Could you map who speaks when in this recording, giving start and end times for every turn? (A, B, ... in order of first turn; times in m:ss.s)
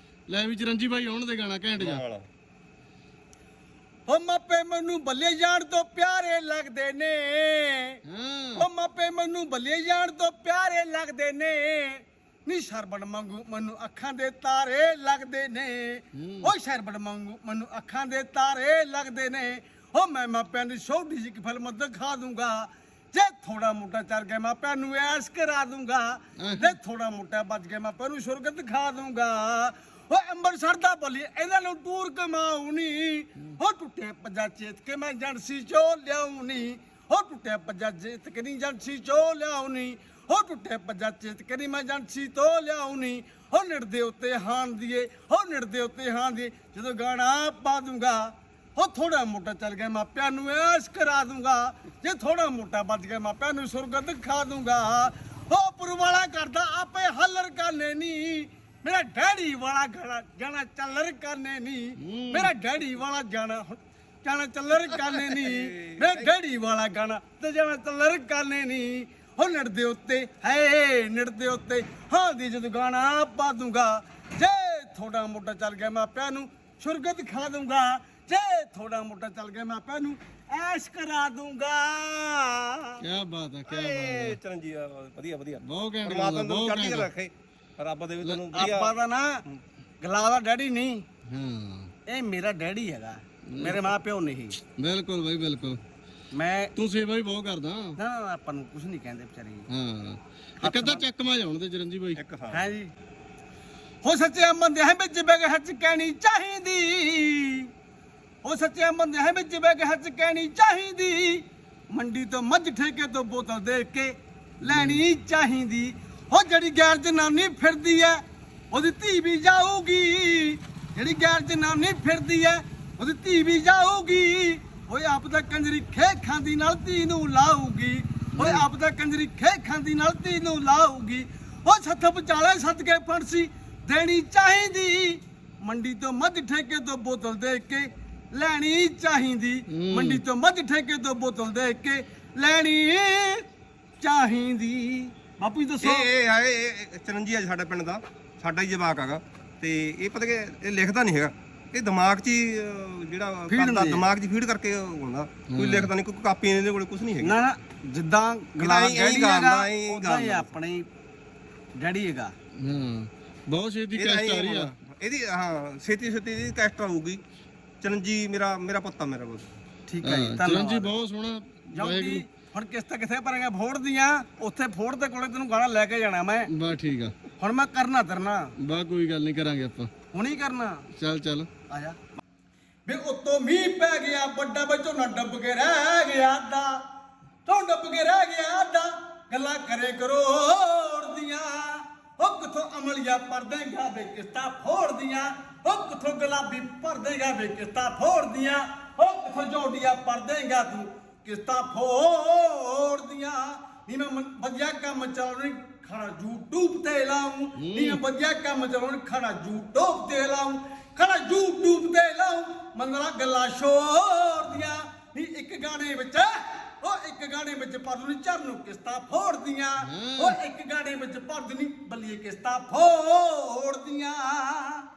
0:00.3-0:02.0 A
0:01.8-0:02.3 B
0:04.1-0:08.0 C
0:08.0-0:08.6 A
0:08.5-1:23.0 C
0:16.1-0:16.5 A
0:26.4-0:26.8 A
1:02.0-1:02.5 A
1:05.1-1:06.3 B
1:23.0-1:24.4 A
1:23.6-1:28.9 B
1:25.6-1:27.1 A
1:28.2-1:28.7 A
1:28.5-1:29.4 C
1:30.0-1:31.1 C
1:31.3-1:31.9 A
1:32.1-1:34.6 C
1:33.5-1:33.9 A
1:34.8-1:35.8 A
1:36.3-1:36.7 C
1:36.8-1:38.0 A
1:38.0-1:39.7 C
1:39.7-1:42.2 A
1:40.6-1:41.0 C
1:42.2-1:42.6 B
1:42.5-1:42.9 C
1:44.0-1:47.7 C
1:48.4-2:23.4 C
1:54.7-1:55.0 A
2:08.4-2:08.7 A
2:19.7-2:20.2 A
2:24.0-2:26.1 C
2:25.8-2:37.4 B
2:33.5-2:34.1 C
2:35.5-2:35.9 A
2:37.2-2:40.9 C
2:38.6-2:40.5 B
2:41.8-2:42.3 C
2:42.6-2:44.7 A
2:43.9-2:47.2 B
2:47.8-2:49.6 B
2:49.9-2:51.0 C
2:50.0-2:52.2 A
2:51.7-2:56.5 C
2:56.5-2:57.1 A
2:57.4-2:58.5 C
2:58.6-2:59.9 A
3:00.1-3:00.9 C
3:00.9-3:01.5 A
3:01.7-3:02.0 C
3:02.8-3:06.8 C
3:07.4-3:44.8 C
3:27.6-3:28.0 A
3:39.8-3:40.4 A